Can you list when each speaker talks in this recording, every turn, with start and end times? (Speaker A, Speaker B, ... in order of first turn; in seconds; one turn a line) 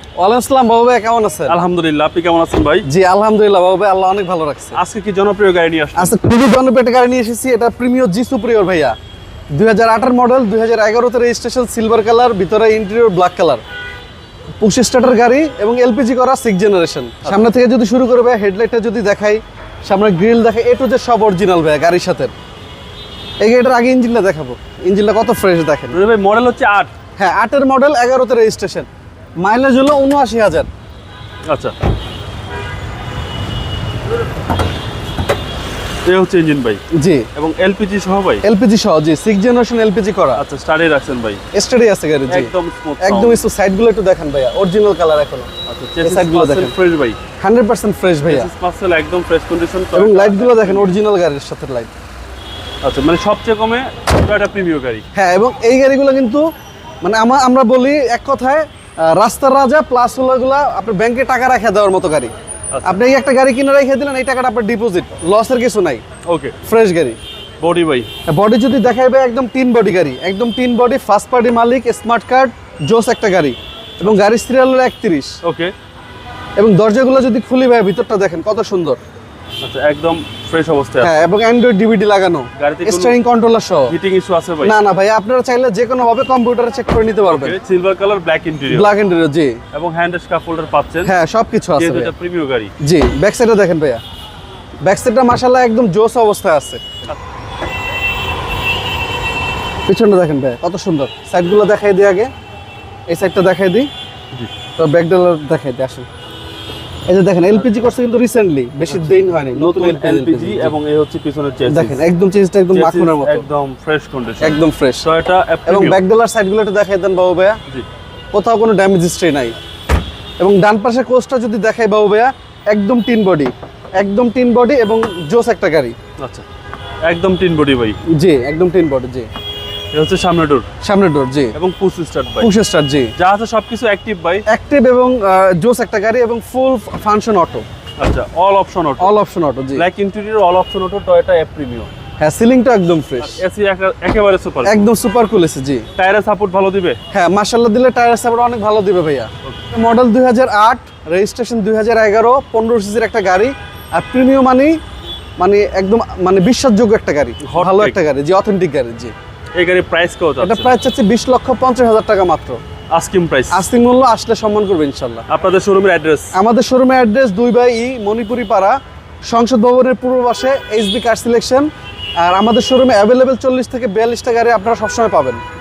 Speaker A: 0.2-1.6
Speaker B: 1.5-2.9
Speaker A: 2.8-4.8
Speaker B: 4.7-6.2
Speaker A: 6.0-8.9
Speaker A: 9.5-13.6
Speaker A: 14.6-22.3
Speaker A: 23.4-26.0
Speaker B: 25.9-26.9
Speaker A: 27.2-28.9
Speaker A: 29.4-30.7
Speaker B: 31.4-31.7
Speaker B: 36.0-36.8
Speaker A: 36.9-37.3
Speaker B: 37.3-38.4
Speaker A: 38.4-40.4
Speaker B: 40.3-41.4
Speaker A: 41.5-45.5
Speaker B: 42.3-43.5
Speaker B: 45.7-47.2
Speaker A: 46.0-46.7
Speaker A: 47.4-48.5
Speaker B: 48.2-50.9
Speaker A: 49.9-51.9
Speaker B: 52.8-55.0
Speaker A: 55.1-56.4
Speaker A: 57.0-62.3
Speaker B: 62.7-63.0
Speaker A: 62.8-66.0
Speaker B: 66.2-66.5
Speaker A: 66.6-67.2
Speaker B: 67.6-68.1
Speaker A: 68.3-75.4
Speaker B: 75.4-75.7
Speaker A: 76.6-79.0
Speaker B: 79.6-81.2
Speaker A: 81.0-83.9
Speaker B: 82.5-83.2
Speaker B: 83.9-84.8
Speaker A: 84.6-87.6
Speaker B: 87.2-88.9
Speaker A: 88.7-89.6
Speaker B: 89.7-91.1
Speaker A: 91.0-92.1
Speaker B: 91.8-92.7
Speaker A: 92.8-94.0
Speaker A: 94.8-97.0
Speaker A: 99.9-102.3
Speaker A: 103.1-103.9
Speaker A: 104.8-106.1
Speaker A: 107.1-110.7
Speaker B: 108.8-112.0
Speaker A: 111.7-113.5
Speaker B: 112.7-116.0
Speaker A: 114.4-115.1
Speaker A: 115.7-117.6
Speaker A: 118.3-119.5
Speaker A: 120.4-125.9
Speaker B: 126.2-126.4
Speaker B: 127.0-128.0
Speaker A: 128.1-129.3
Speaker B: 129.9-130.7
Speaker A: 130.8-131.6
Speaker B: 131.5-132.5
Speaker A: 132.4-133.1
Speaker B: 133.2-134.4
Speaker A: 134.5-137.6
Speaker B: 138.0-139.1
Speaker A: 139.0-139.8
Speaker B: 139.7-141.9
Speaker A: 142.2-143.4
Speaker B: 143.2-144.9
Speaker A: 144.6-145.9
Speaker B: 145.9-147.0
Speaker A: 147.1-154.7
Speaker A: 155.4-159.1
Speaker B: 157.4-157.9
Speaker B: 159.6-160.8
Speaker A: 160.4-162.6
Speaker B: 162.9-163.7
Speaker A: 163.5-165.2
Speaker B: 165.3-166.3
Speaker A: 166.3-168.8
Speaker A: 169.3-171.7
Speaker A: 172.2-175.4